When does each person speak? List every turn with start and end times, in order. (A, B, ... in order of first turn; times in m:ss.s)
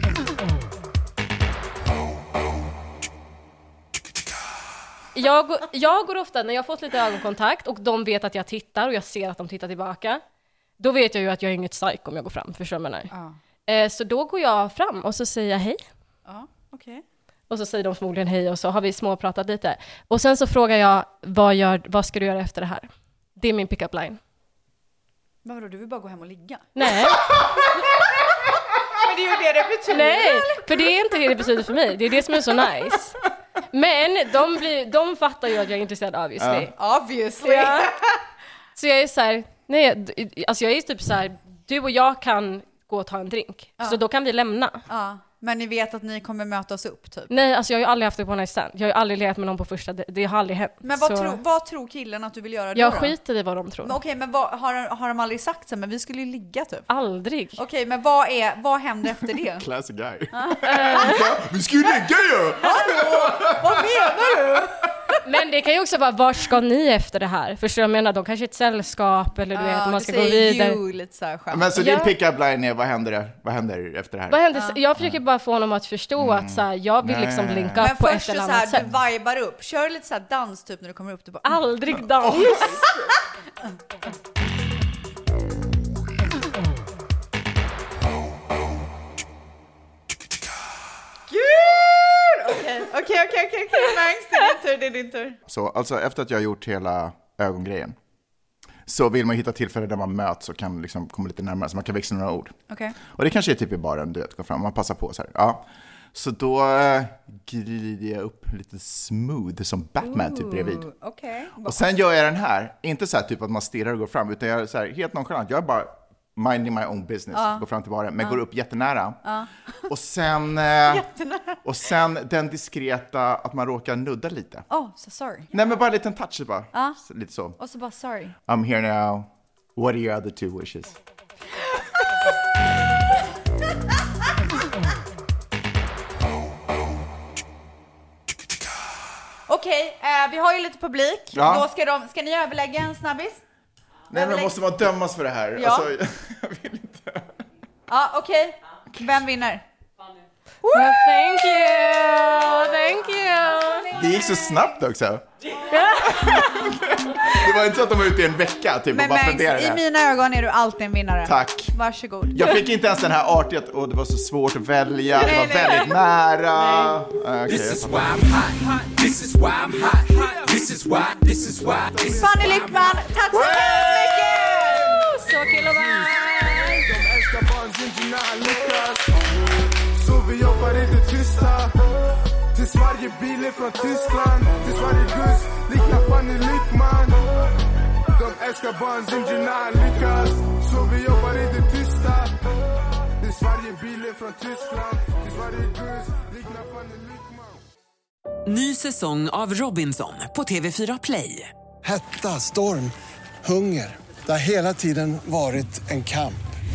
0:05.1-0:10.2 A
0:10.8-0:13.1 A
0:13.1-0:13.4 B
0:13.7-0:15.8 A
0:16.2-0:17.0 B
0:17.5-0:24.2 A
0:25.4-0:26.7 B
0:26.7-0:27.4 A
0:29.0-0:30.8 B
0:29.9-0:33.2 A
0:33.7-0:36.7 A
0:36.4-0:36.6 C
0:36.7-0:38.2 B
0:37.4-0:37.9 A
0:38.8-0:44.8 A
0:44.9-0:47.3 B
0:47.3-0:51.4 A
0:50.8-0:53.1 B
0:52.7-0:54.0 A
0:53.8-0:56.9 B
0:56.9-0:57.6 A
0:57.6-0:59.6 B
0:59.6-1:04.5 C
1:00.3-1:01.2 B
1:00.6-1:01.3 A
1:02.6-1:04.7 B
1:05.2-1:10.8 A
1:09.5-1:11.7 B
1:11.5-1:14.4 C
1:11.8-1:12.1 A
1:14.3-1:18.9 A
1:16.2-1:17.8 C
1:17.8-1:21.6 B
1:21.4-1:22.9 A
1:22.2-1:22.6 C
1:31.3-1:35.4 B
1:35.5-1:37.9 C
1:38.9-1:42.5 C
1:42.7-1:43.0 B
1:43.0-1:50.9 C
1:50.0-1:51.8 B
1:51.6-1:59.2 C
1:57.3-1:57.6 B
1:59.2-1:59.5 B
1:59.9-2:01.0 C
2:00.9-2:01.6 B
2:01.6-2:04.6 C
2:04.7-2:05.5 B
2:05.5-2:07.6 C
2:06.7-2:07.0 B
2:07.6-2:08.3 B
2:08.5-2:11.0 C
2:19.5-2:23.4 B
2:21.3-2:21.7 C
2:24.1-2:27.3 C
2:24.1-2:24.6 B
2:25.6-2:25.9 B
2:27.9-2:29.6 B
2:30.6-2:31.0 B
2:30.7-2:33.9 A
2:33.9-2:35.2 C
2:35.7-2:36.3 A
2:36.0-2:39.8 C
2:38.9-2:42.5 B
2:41.2-2:41.7 C
2:42.3-2:48.5 C
2:45.2-2:46.0 B
2:51.6-2:52.3 D
2:52.0-2:55.0 B
2:54.8-2:56.8 A
2:55.6-2:56.1 D
2:56.8-2:59.1 D
2:59.9-3:01.7 D
3:02.5-3:07.2 D
3:08.2-3:12.4 D
3:13.2-3:17.6 D
3:18.4-3:21.5 E
3:21.8-3:26.4 F